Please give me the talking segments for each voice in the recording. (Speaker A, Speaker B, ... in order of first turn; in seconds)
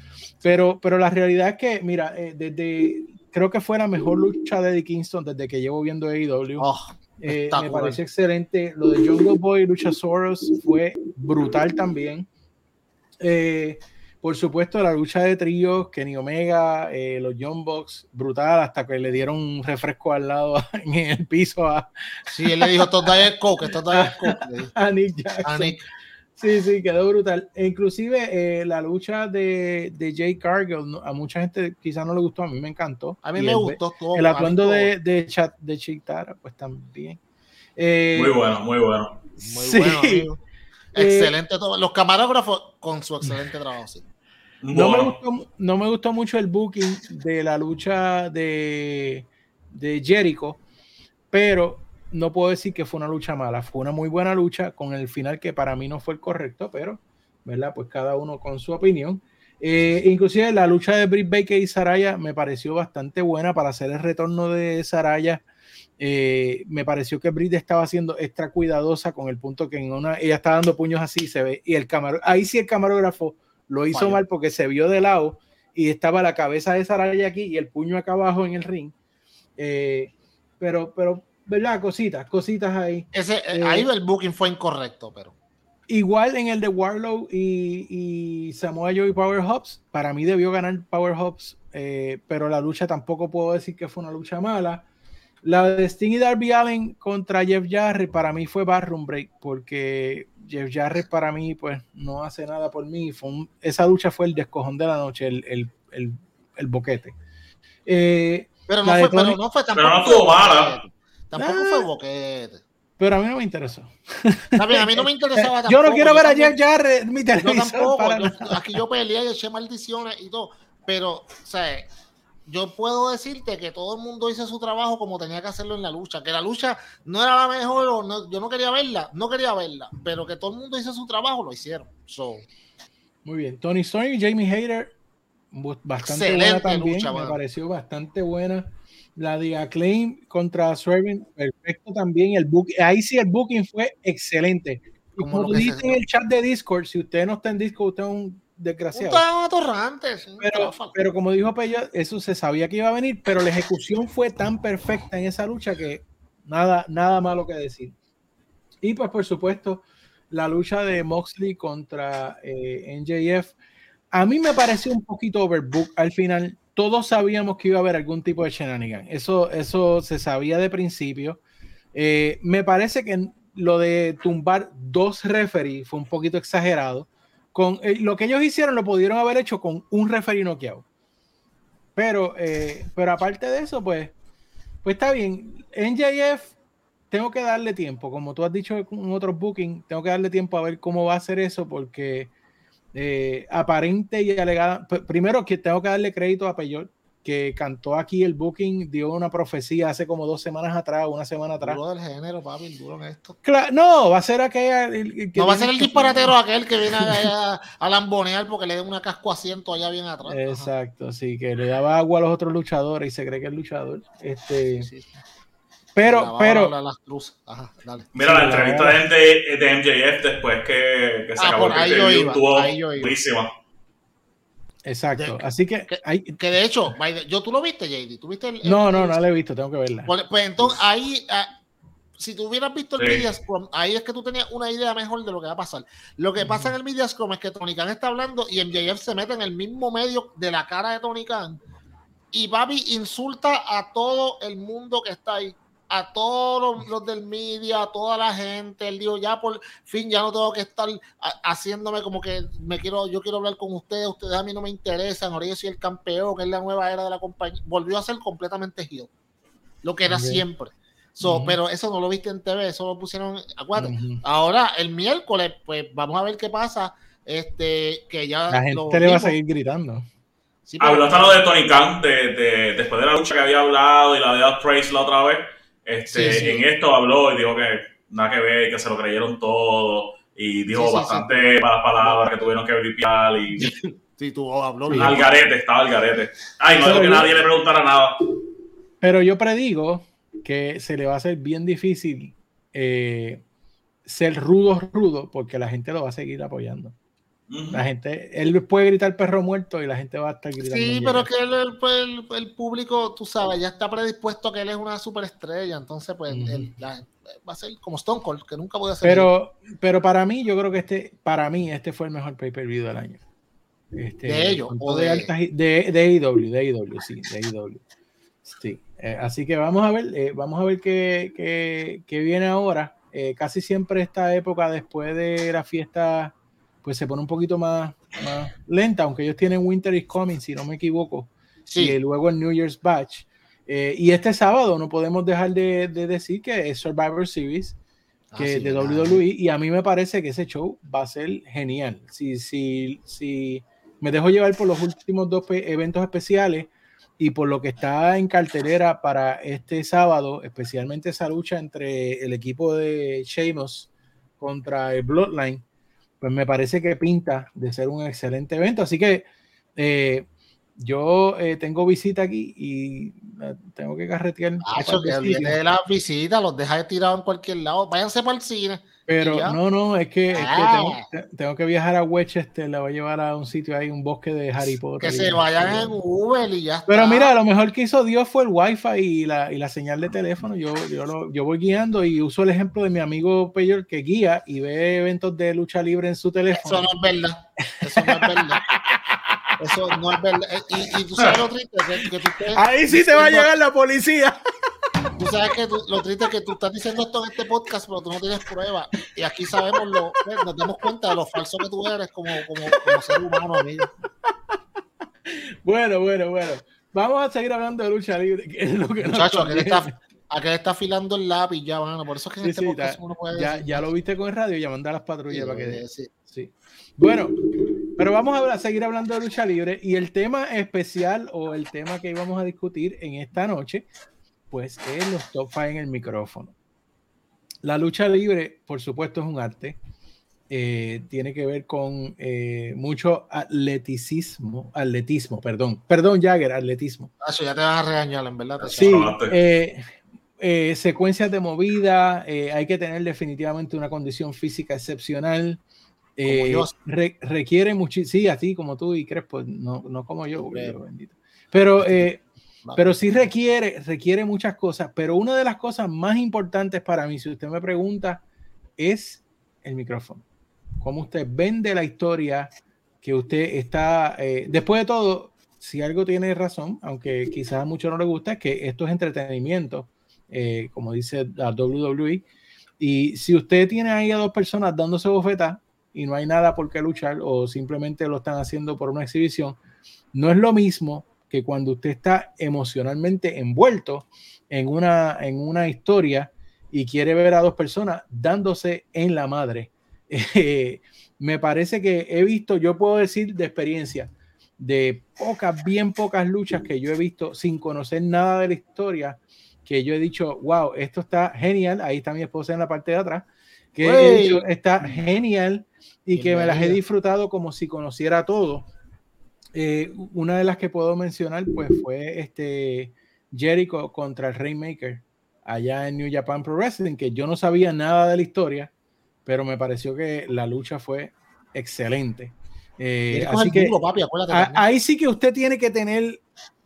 Speaker A: 0.4-6.7, 7.2-12.3, 13.2-23.1, 23.9-25.8, 26.4-37.2, 37.8-38.4, 39.4-40.3, 41.0-41.3, 44.7-50.6, 51.3-65.4, 66.0-78.9, 79.6-83.9, 85.9-94.8, 95.4-107.2, 107.9-109.4, 111.4-111.9, 113.0-118.8, 133.2-134.9, 135.5-149.2, 150.4-157.9, 158.8-163.6, 164.1-171.4, 171.9-180.8, 182.0-184.1, 184.8-186.6, 187.1-192.3, 192.9-201.8, 203.4-206.4, 207.0-207.3, 210.3-214.9, 216.0-216.7, 218.2-219.0, 224.9-226.4, 228.6-230.1, 236.4-236.7, 260.1-260.4, 261.2-261.6, 263.8-264.2, 268.5-270.1, 284.9-285.1, 286.8-287.3, 289.0-293.4, 294.1-296.9, 297.7-301.3, 306.3-306.7, 309.0-313.2, 313.9-317.8, 318.4-337.8, 338.4-355.6, 356.2-360.3, 360.8-365.6, 369.1-375.9, 376.9-386.9, 387.7-390.0, 390.8-391.4, 392.0-394.4, 399.9-400.2, 402.7-403.3, 405.3-409.9, 412.4-417.4, 418.0-423.9, 424.5-426.6, 427.6-429.8, 430.5-437.1, 438.7-445.6, 446.2-452.2, 452.8-458.2, 458.8-460.2, 460.8-462.5, 463.0-472.2, 472.8-479.6, 480.1-508.7, 509.6-518.7, 519.3-523.8, 524.3-526.2
Speaker B: 6.6-8.0, 22.3-24.7, 25.4-25.8, 33.2-34.9, 39.5-40.4, 40.9-44.0, 73.9-74.2, 83.1-85.3, 108.7-112.6, 114.6-116.5, 117.4-121.9, 122.5-132.5, 136.0-137.4, 145.2-146.0, 148.9-151.0, 201.6-203.4, 205.3-210.7, 214.8-215.2, 216.0-218.1, 221.4-223.2, 225.2-229.2, 230.1-231.5, 232.2-241.6, 242.3-259.1, 259.8-269.4, 270.7-271.4, 276.1-276.6, 280.7-281.5, 282.0-282.3, 283.6-285.4, 300.6-309.3, 314.2-315.3, 331.7-332.0, 338.3-339.2, 364.6-369.6, 370.3-371.1, 375.0-377.3, 386.6-388.6, 389.6-393.5, 395.2-403.9, 409.1-413.9, 415.3-416.1, 437.2-439.0, 446.2-446.7, 450.4-450.8, 451.8-452.1, 452.6-453.3, 503.8-505.0, 506.2-506.8, 523.1-524.6
Speaker C: 38.2-39.2, 44.6-45.2, 109.8-110.8, 218.2-223.5, 233.0-233.3, 270.8-283.7, 285.0-288.2, 297.5-297.8, 438.8-439.4